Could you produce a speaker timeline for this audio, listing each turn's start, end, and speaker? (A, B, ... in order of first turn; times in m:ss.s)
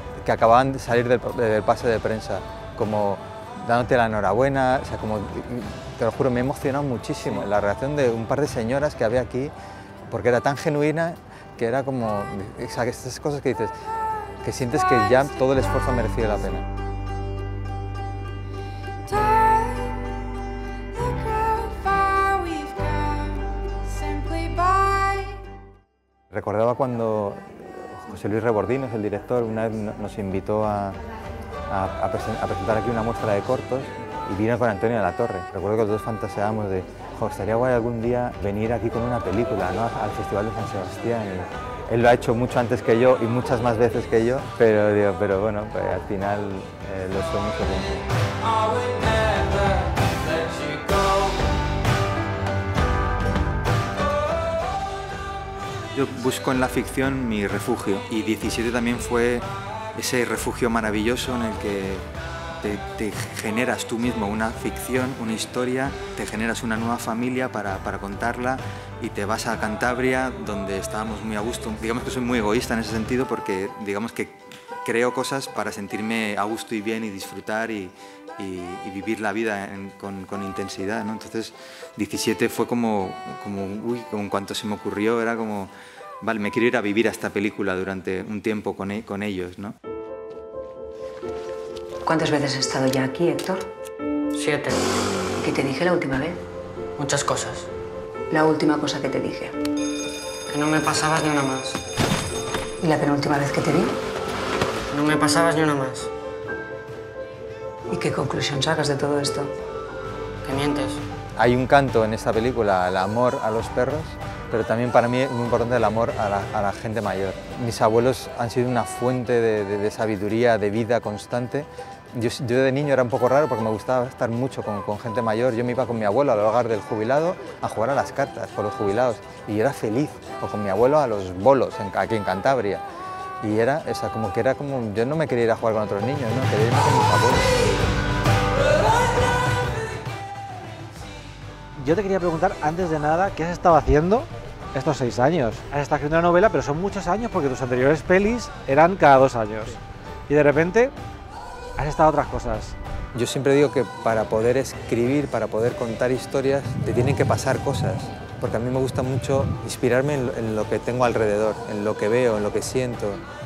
0:00.2-0:09.5 A
0:10.1-0:13.8 A
0:14.4-0:16.6 A
0:19.1-0:20.0 B
0:20.9-0:25.4 B
0:26.3-0:31.0 A
0:31.7-0:48.0 A
0:55.9-1:02.1 A
1:02.6-1:29.8 A
1:32.0-1:33.7 C
1:34.3-1:34.8 D
1:35.4-1:36.4 C
1:37.0-1:37.7 D
1:38.3-1:39.6 C
1:40.5-1:41.8 D
1:42.8-1:44.0 C
1:44.9-1:46.1 D
1:47.9-1:49.5 C
1:50.4-1:51.0 D
1:51.4-2:12.8 A
2:13.4-2:17.6 A
2:21.8-2:30.9 B
2:31.8-2:32.7 B
2:33.1-2:43.2 A